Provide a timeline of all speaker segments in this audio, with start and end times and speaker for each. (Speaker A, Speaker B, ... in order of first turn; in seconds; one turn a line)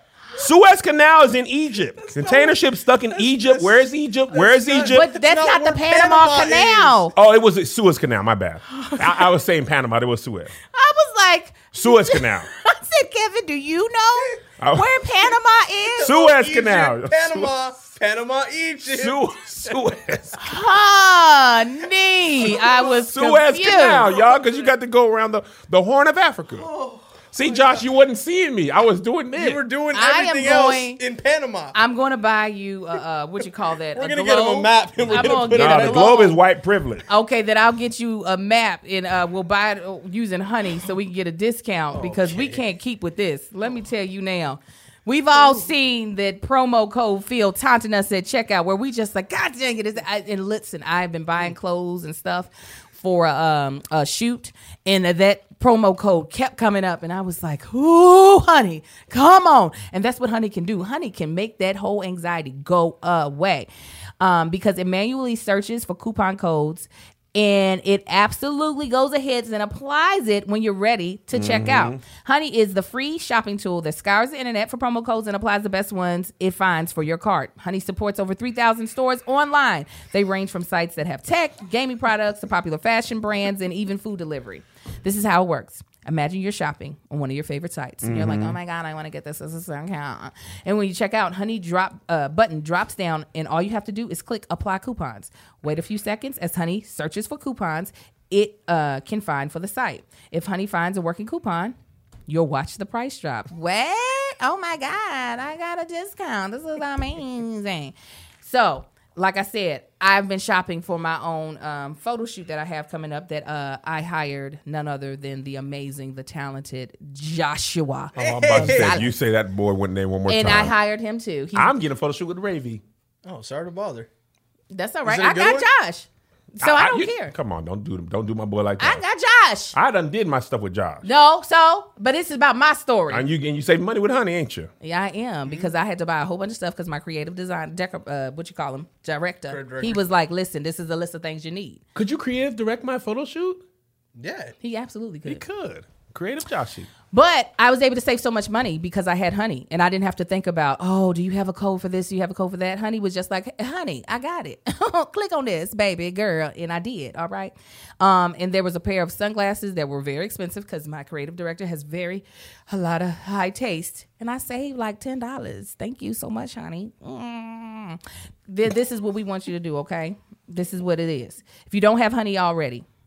Speaker A: 0.3-5.1
Speaker B: 2.0-7.1
Speaker C: 4.8-7.1
Speaker A: 7.2-10.5
Speaker C: 8.8-9.3
Speaker C: 10.7-16.2
Speaker A: 11.7-12.5
Speaker A: 14.6-14.9
Speaker B: 15.9-19.7
Speaker A: 16.0-17.6
Speaker A: 18.9-20.4
Speaker C: 20.4-24.2
Speaker B: 22.4-22.9
Speaker A: 23.1-26.7
Speaker B: 26.6-27.8
Speaker A: 27.3-29.6
Speaker B: 29.4-31.8
Speaker C: 29.9-31.0
Speaker C: 31.7-36.4
Speaker B: 33.9-36.2
Speaker A: 35.2-37.0
Speaker C: 37.1-63.7
Speaker B: 41.9-42.6
Speaker C: 64.2-101.8
Speaker A: 71.3-72.0
Speaker A: 88.0-88.6
Speaker C: 102.3-119.1
Speaker A: 118.2-120.8
Speaker B: 118.2-119.1
Speaker C: 120.3-121.7
Speaker A: 121.5-122.8
Speaker B: 123.2-124.1
Speaker C: 124.7-127.3
Speaker B: 125.0-125.7
Speaker A: 126.6-129.0
Speaker C: 128.8-129.8
Speaker A: 129.7-131.1
Speaker C: 131.0-133.3
Speaker A: 133.1-134.7
Speaker C: 134.8-141.8
Speaker B: 135.5-135.7
Speaker B: 139.5-140.0
Speaker A: 141.9-143.6
Speaker B: 144.2-144.5
Speaker C: 144.6-145.4
Speaker A: 145.3-146.9
Speaker C: 147.1-172.8